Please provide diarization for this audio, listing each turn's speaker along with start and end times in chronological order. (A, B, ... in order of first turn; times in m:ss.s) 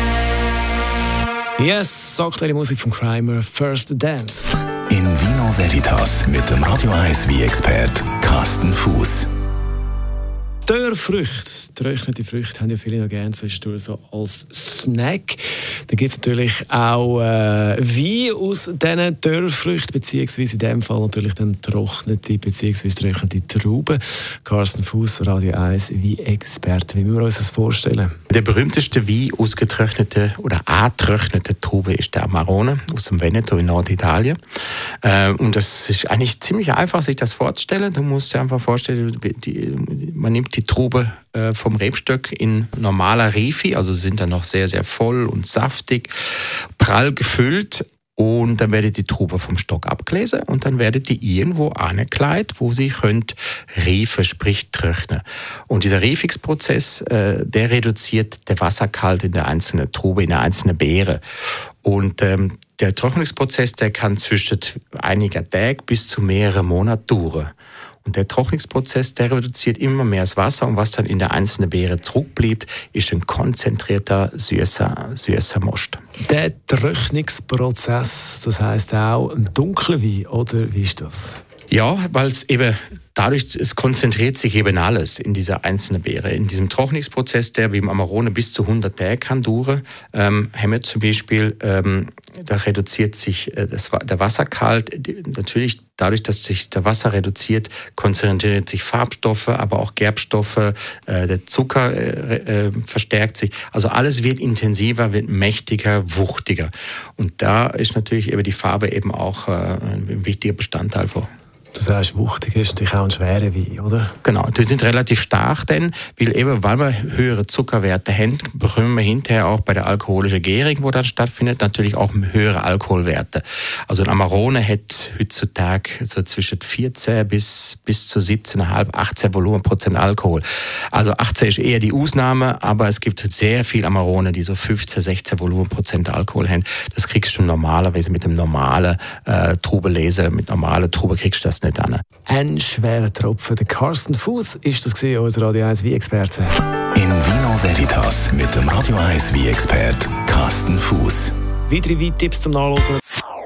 0:01.6-0:04.6 A
0:04.9-0:09.3 B
0:10.6-0:28.1 A
0:28.3-0:34.4 C
0:35.0-0:46.1 C
0:46.8-1:01.2 C
1:01.8-1:07.5 C
1:08.0-1:16.0 C
1:16.2-1:21.4 A
1:21.7-1:51.3 C
1:51.7-1:54.1 A
1:54.2-2:22.0 C
2:22.3-2:26.6 A
2:26.9-2:31.3 B
2:31.7-2:33.0 A